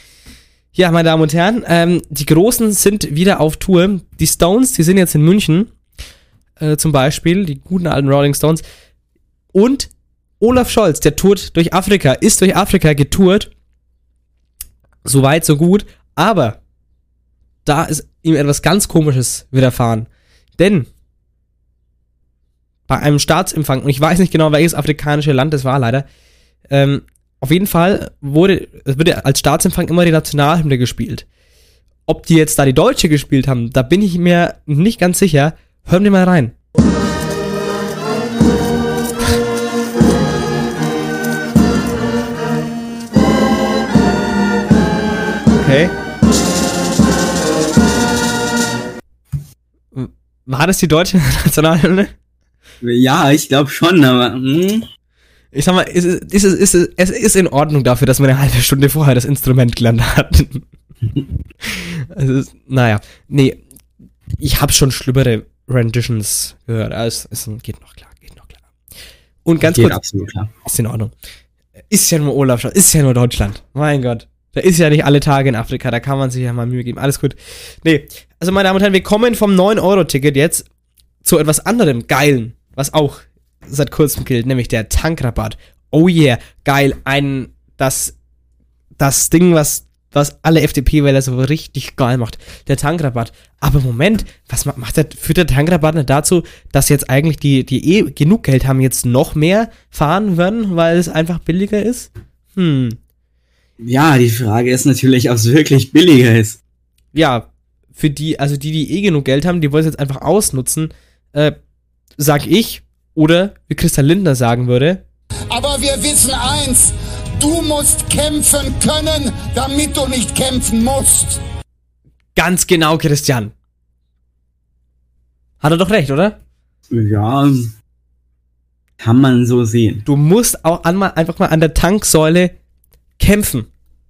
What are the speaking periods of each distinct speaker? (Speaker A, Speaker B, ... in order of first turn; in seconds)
Speaker A: 0.7-5.7, 6.6-8.6, 9.5-13.5, 15.0-16.6, 17.6-20.9, 22.9-26.1, 26.7-31.2, 32.1-36.5, 45.5-45.9, 49.9-52.1, 55.5-60.6, 61.6-63.6, 64.4-68.6, 69.4-70.0, 70.7-71.1, 71.9-80.6, 81.2-88.1, 89.0-103.0, 107.1-111.5, 112.2-115.0, 122.3-123.5, 125.6-126.3, 130.1-132.5, 133.2-133.7
Speaker B: 52.8-54.9, 69.6-70.5, 103.8-106.6, 126.9-127.7, 129.0-130.0
Speaker C: 115.5-121.4